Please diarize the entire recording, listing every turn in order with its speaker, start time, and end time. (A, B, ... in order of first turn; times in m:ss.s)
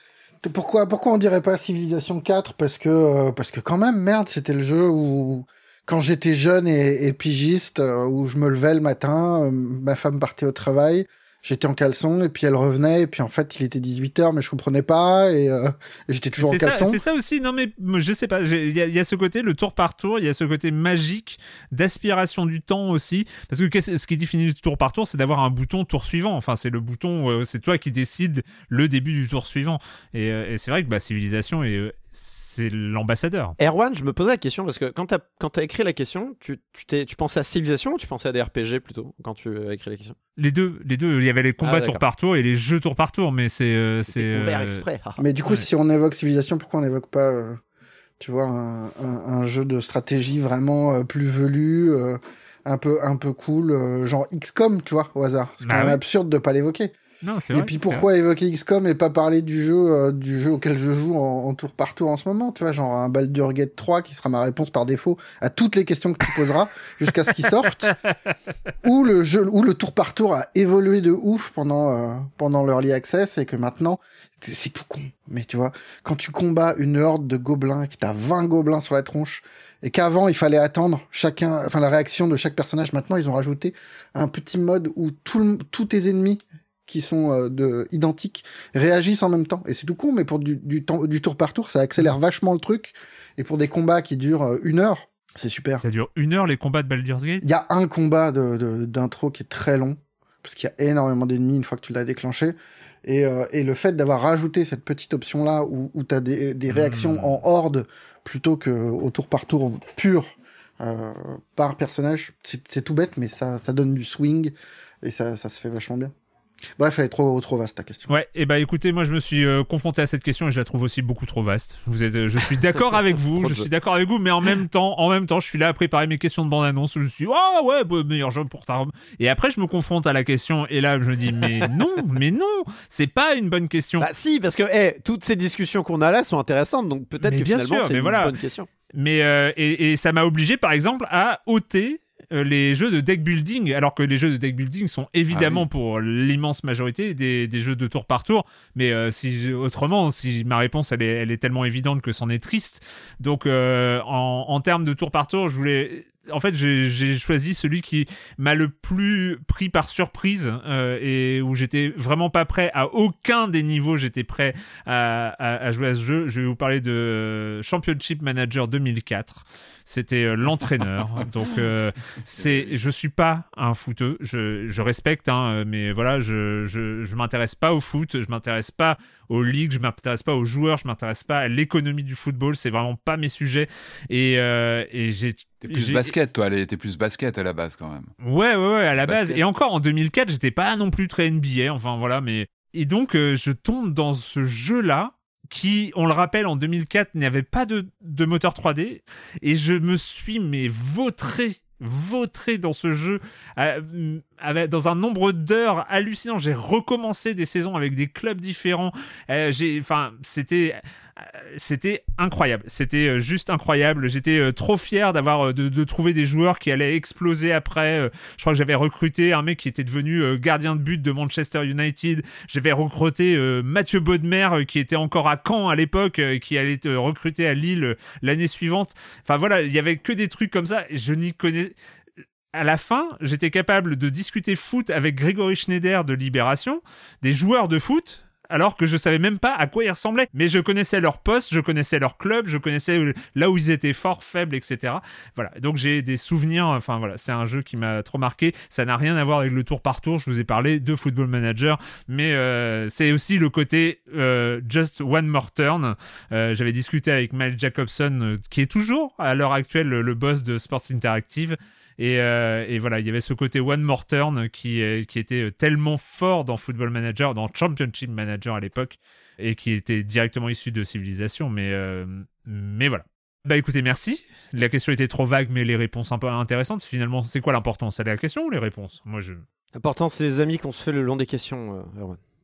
0:00.4-0:17.0 A
0:16.4-0:33.6 B
0:33.6-0:40.2 C
0:40.4-0:44.8 B
0:41.6-0:42.0 C
0:44.0-0:45.2 C
0:45.2-0:47.6 A
0:48.2-0:56.9 A
0:55.6-0:56.0 B
0:57.2-0:58.0 B
0:57.5-1:08.0 A
1:08.8-1:35.8 A
1:35.8-1:37.4 B
1:37.4-1:50.2 A
1:46.7-1:47.4 B
1:50.8-1:56.1 A
1:56.8-1:58.1 A
1:58.1-2:14.1 B
2:03.3-2:03.7 C
2:14.0-2:18.7 C
2:17.2-2:18.3 B
2:18.9-3:06.1 B
2:25.3-2:25.6 D
2:52.3-2:52.7 D
3:05.6-3:08.1 D
3:08.2-3:51.7 B
3:09.0-3:09.4 D
3:52.5-4:39.4 B
4:39.8-4:42.2 C